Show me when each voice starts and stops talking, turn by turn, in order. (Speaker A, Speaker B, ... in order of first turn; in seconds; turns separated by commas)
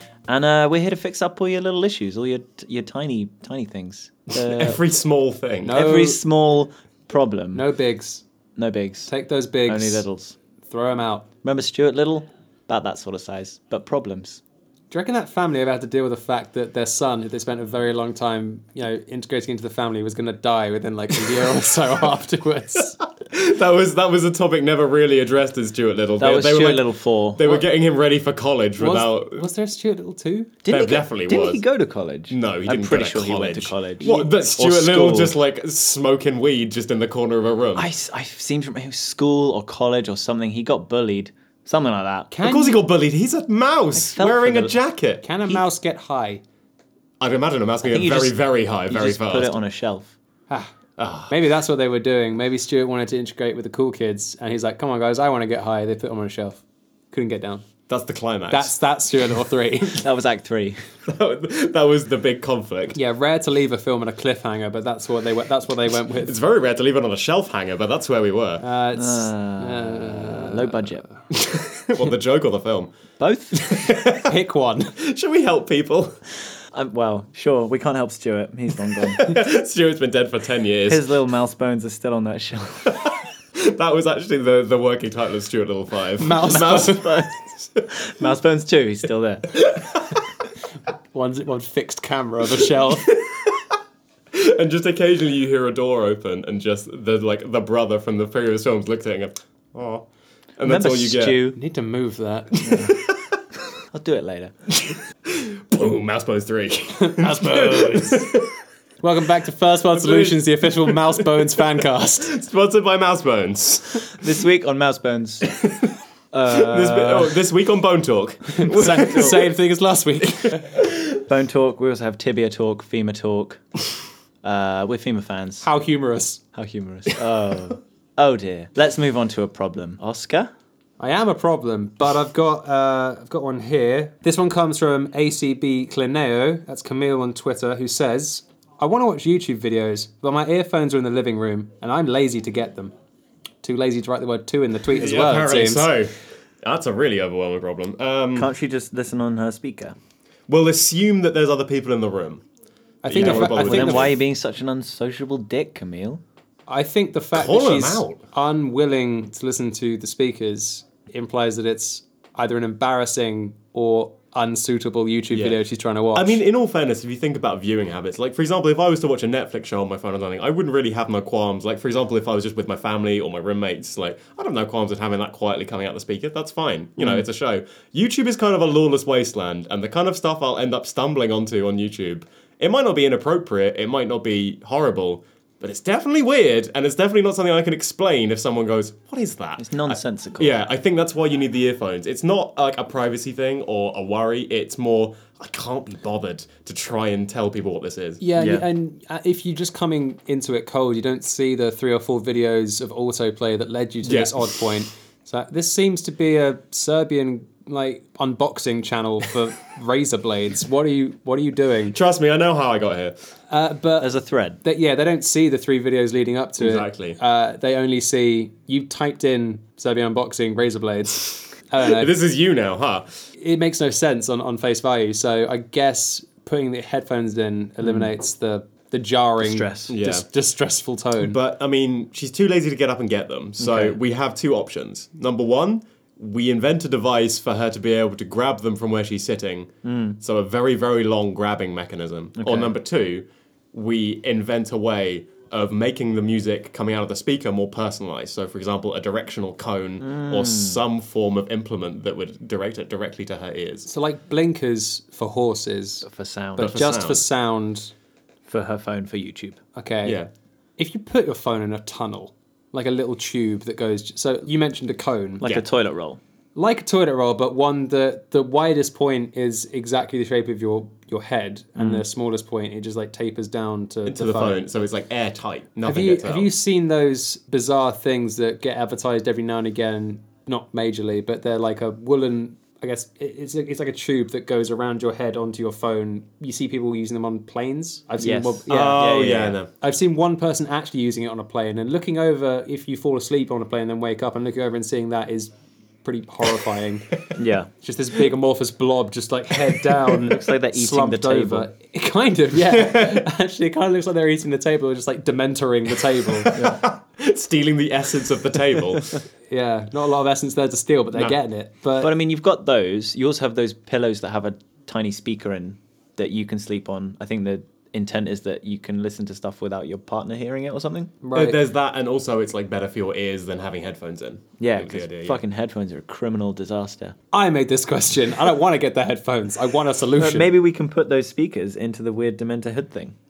Speaker A: 0.3-4.8, Speaker B: 4.4-5.8, Speaker C: 5.6-6.2, Speaker A: 5.7-7.6, Speaker C: 7.5-8.2, Speaker A: 8.6-9.1, Speaker C: 9.1-10.0, Speaker A: 9.7-10.3, Speaker C: 10.7-11.2, Speaker A: 11.4-14.4, Speaker C: 14.9-23.0, Speaker B: 23.2-29.4, Speaker A: 26.2-27.6, Speaker C: 28.8-30.5, Speaker A: 30.6-35.4, Speaker B: 30.7-31.6, Speaker B: 32.3-37.9, Speaker A: 37.8-42.3, Speaker C: 42.3-42.8, Speaker B: 42.4-45.2, Speaker A: 43.9-44.7, Speaker C: 45.2-46.4, Speaker B: 47.2-49.6, Speaker A: 47.8-50.1, Speaker B: 51.0-51.3, Speaker C: 51.3-57.6, Speaker B: 57.9-58.7, Speaker C: 58.5-60.0, Speaker A: 60.0-60.8, Speaker B: 61.1-63.0, Speaker C: 62.9-66.3, Speaker B: 66.2-68.6, Speaker C: 68.6-71.1, Speaker A: 68.9-71.0, Speaker B: 71.3-72.9, Speaker A: 73.2-73.6, Speaker B: 73.5-74.3, Speaker C: 74.2-74.9, Speaker B: 75.0-76.2, Speaker A: 76.7-79.4, Speaker B: 79.2-81.0, Speaker A: 80.9-83.1, Speaker B: 83.1-87.8, Speaker C: 86.2-87.0, Speaker A: 86.4-87.4, Speaker A: 87.9-89.6, Speaker B: 89.5-90.0, Speaker C: 91.1-93.1, Speaker B: 93.0-93.6, Speaker B: 94.3-100.0, Speaker B: 100.6-101.4, Speaker A: 100.6-101.6, Speaker C: 101.5-102.6, Speaker B: 102.6-103.2, Speaker A: 102.6-103.0, Speaker A: 103.9-104.5, Speaker B: 104.8-108.5, Speaker C: 107.0-108.3, Speaker C: 109.0-112.3, Speaker B: 109.9-111.6, Speaker B: 112.2-114.2, Speaker A: 114.1-115.5, Speaker B: 115.6-115.9, Speaker A: 116.3-117.3, Speaker B: 116.5-119.5, Speaker C: 118.5-120.8, Speaker A: 121.2-123.6, Speaker A: 124.4-125.6, Speaker C: 125.6-126.4, Speaker A: 126.5-130.5, Speaker C: 131.0-142.9, Speaker C: 143.6-145.9, Speaker B: 144.9-148.5, Speaker A: 148.3-149.9, Speaker B: 150.5-152.4, Speaker C: 153.0-154.1, Speaker B: 153.1-154.1, Speaker A: 153.2-156.2, Speaker C: 156.7-166.4, Speaker B: 157.3-158.2, Speaker B: 165.3-165.6, Speaker B: 166.1-198.2, Speaker A: 177.0-177.2, Speaker A: 189.6-190.6, Speaker C: 198.2-211.9, Speaker A: 198.3-198.6, Speaker B: 204.0-204.7, Speaker B: 211.9-213.1, Speaker C: 213.5-222.1, Speaker A: 214.0-214.6, Speaker B: 216.6-217.2, Speaker B: 221.8-223.1, Speaker C: 223.4-231.4, Speaker A: 227.8-228.1, Speaker A: 229.4-229.9, Speaker B: 229.9-230.2, Speaker B: 231.2-253.9, Speaker A: 233.6-233.9, Speaker A: 239.8-240.2, Speaker A: 242.4-242.7, Speaker A: 250.0-250.8, Speaker C: 253.9-257.9, Speaker A: 256.0-256.7, Speaker B: 256.6-257.2, Speaker A: 258.4-259.6, Speaker C: 259.7-260.2, Speaker C: 260.8-265.4, Speaker A: 265.4-266.2, Speaker C: 266.6-274.6, Speaker B: 274.1-276.5, Speaker C: 275.8-295.5, Speaker A: 288.2-289.5, Speaker B: 288.7-289.7, Speaker C: 296.0-297.1, Speaker A: 297.4-297.7, Speaker C: 297.8-306.5, Speaker A: 300.3-301.7, Speaker B: 302.7-303.2, Speaker B: 306.2-309.2, Speaker A: 306.5-306.8, Speaker C: 309.5-312.1, Speaker A: 312.0-321.1, Speaker C: 321.2-321.6, Speaker B: 321.3-325.4, Speaker A: 324.6-327.1, Speaker C: 327.3-330.5, Speaker A: 330.2-333.1